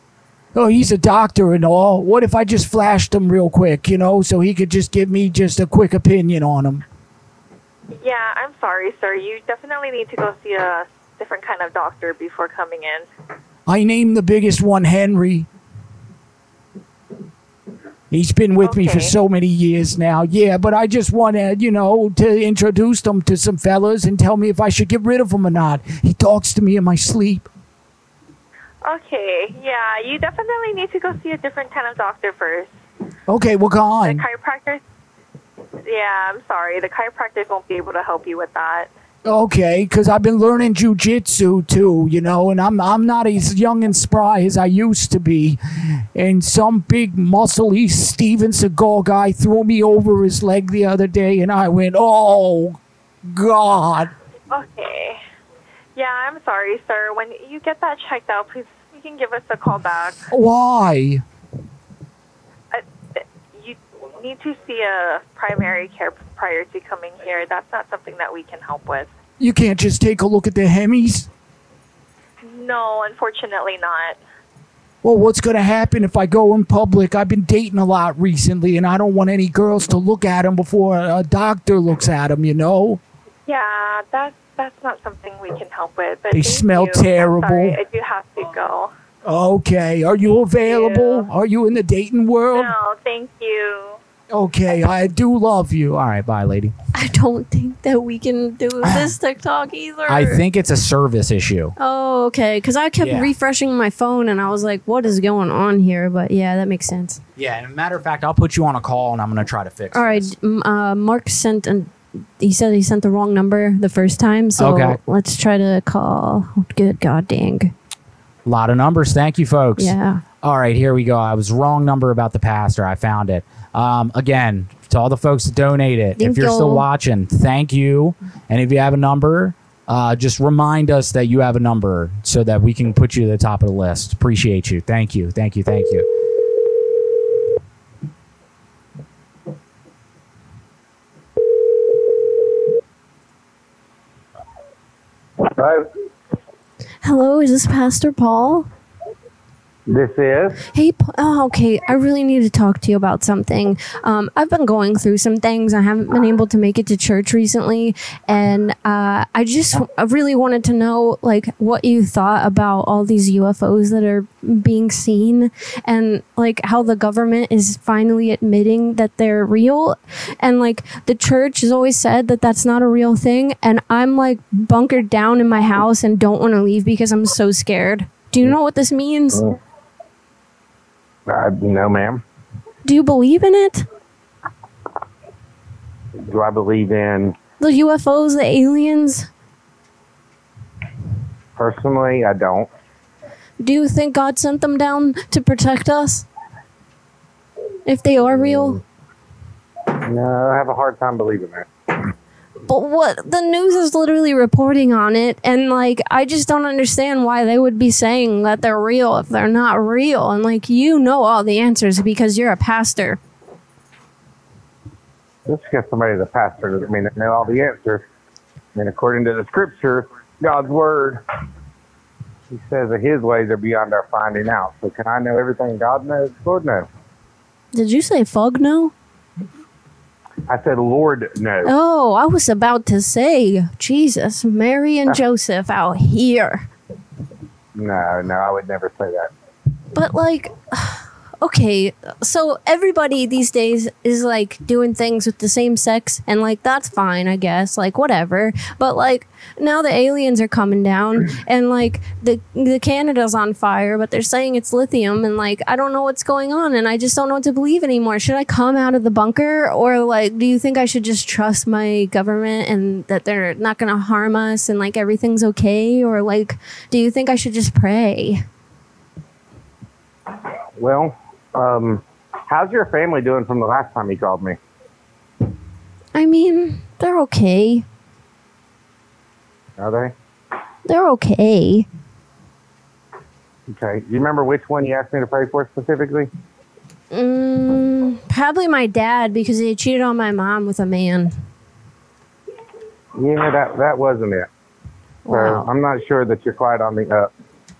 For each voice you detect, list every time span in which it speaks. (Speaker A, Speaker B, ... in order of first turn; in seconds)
Speaker A: 0.5-6.8, 13.7-15.5, 18.1-27.5, 33.3-34.2, 39.2-45.6, 46.1-54.1, 60.3-61.2, 69.4-71.3, 75.0-83.0, 86.3-87.8, 89.2-92.7, 94.3-96.0
Speaker B: 7.9-13.1, 18.6-19.1, 28.8-32.7, 34.0-34.8, 35.8-38.9, 54.5-55.2, 55.9-60.2, 62.7-69.1, 72.4-74.2, 83.5-88.9, 90.6-91.3, 92.5-94.0
Speaker C: 95.9-96.7, 100.1-101.7, 103.0-103.3, 107.3-110.3, 114.6-115.0, 118.4-136.1
Speaker D: 96.9-100.4, 101.8-107.2, 109.9-117.7, 119.8-120.2, 126.2-126.8, 147.0-148.7, 150.7-179.4, 182.8-183.8, 187.6-189.3, 193.6-196.2, 197.8-198.8, 202.7-213.2, 227.7-228.9, 231.6-236.7, 239.9-268.4, 276.1-277.8, 280.9-281.9, 287.1-291.3, 295.2-295.7
Speaker E: 145.4-145.8, 149.9-150.6, 181.3-182.2, 186.2-187.3, 191.6-192.7, 198.3-198.7, 200.1-201.7, 215.5-218.0, 218.8-221.2, 222.5-226.9, 230.5-231.7, 237.8-239.3, 270.8-274.6, 279.8-280.1, 283.7-286.3, 293.2-294.5, 295.3-297.3